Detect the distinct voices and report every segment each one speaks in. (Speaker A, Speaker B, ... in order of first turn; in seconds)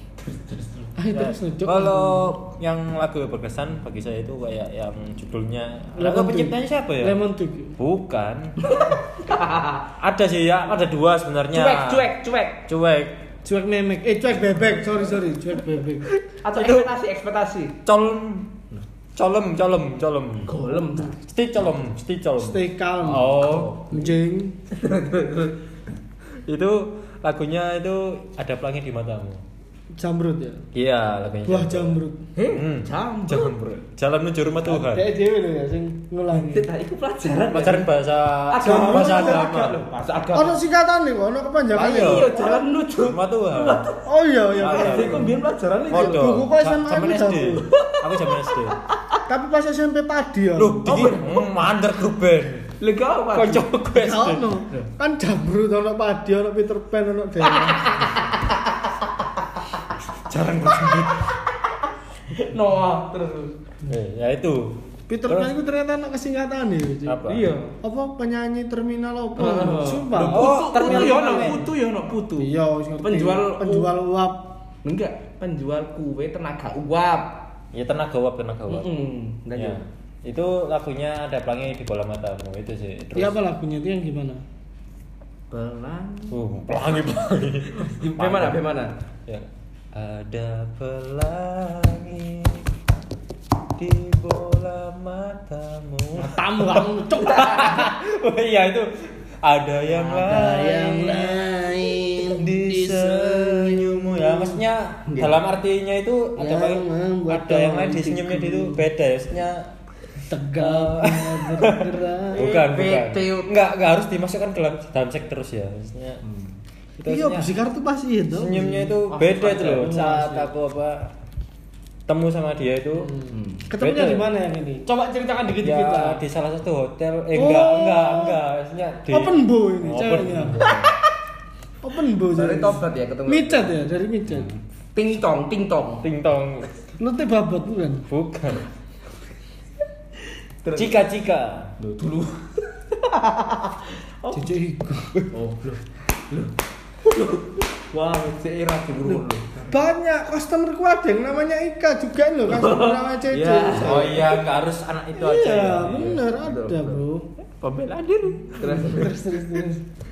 Speaker A: 0.2-0.9, 8.6-9.9, 11.5-12.7, 16.4-17.8, 20.4-21.1, 23.1-24.1, 24.7-25.6, 32.4-33.5, 36.3-37.9, 38.5-40.6, 41.8-44.0, 44.6-46.3, 47.7-49.2, 50.9-51.5, 52.8-53.7, 57.5-58.6, 60.3-61.8, 62.3-63.5, 67.3-67.7, 69.4-72.5, 73.0-73.9, 74.8-77.4, 78.7-79.8, 85.5-86.4, 87.8-88.9, 97.2-97.8, 99.9-104.0, 105.1-105.4, 112.3-113.5, 116.2-116.6, 119.1-120.2, 123.3-123.7, 130.7-130.9, 132.3-133.9, 134.9-136.0, 140.6-141.0, 141.8-144.3, 145.3-149.7, 152.5-154.3, 156.1-159.7
Speaker B: 1.0-2.4, 6.0-7.8, 13.4-16.1, 22.4-23.4, 23.9-24.6, 30.0-30.6, 31.5-32.3, 34.6-36.7, 38.6-39.6, 40.4-42.6, 44.0-45.3, 46.0-47.7, 49.3-51.1, 53.9-57.9, 65.1-67.2, 67.8-71.6, 72.4-74.5, 83.2-84.4, 96.2-97.7, 101.5-102.0, 106.4-108.9, 110.3-112.4, 117.1-119.0, 119.8-120.5, 123.0-126.2, 127.3-128.4, 129.1-130.7, 131.8-134.5, 137.0-138.1, 144.3-145.3, 149.1-154.2, 155.2-157.3, 158.6-159.8
Speaker C: 1.1-7.2, 7.8-8.6, 10.0-12.1, 12.7-13.2, 16.5-16.9, 17.9-18.6, 19.2-20.6, 21.2-23.8, 26.5-29.4, 30.7-32.0, 32.5-35.1, 37.4-39.8, 41.8-42.3, 43.0-43.9, 44.6-45.3, 45.9-48.8, 50.6-52.7, 53.3-54.5, 60.3-61.2, 63.9-65.5, 67.1-67.6, 70.2-71.7, 77.7-78.9, 79.5-83.4, 86.3-88.6, 89.3-92.7, 93.8-101.5, 102.3-109.7, 110.6-116.2, 117.0-117.5, 118.3-121.1, 122.1-123.2, 123.8-124.3, 125.6-130.9, 136.0-136.7, 138.1-138.7, 140.8-141.7, 153.8-156.2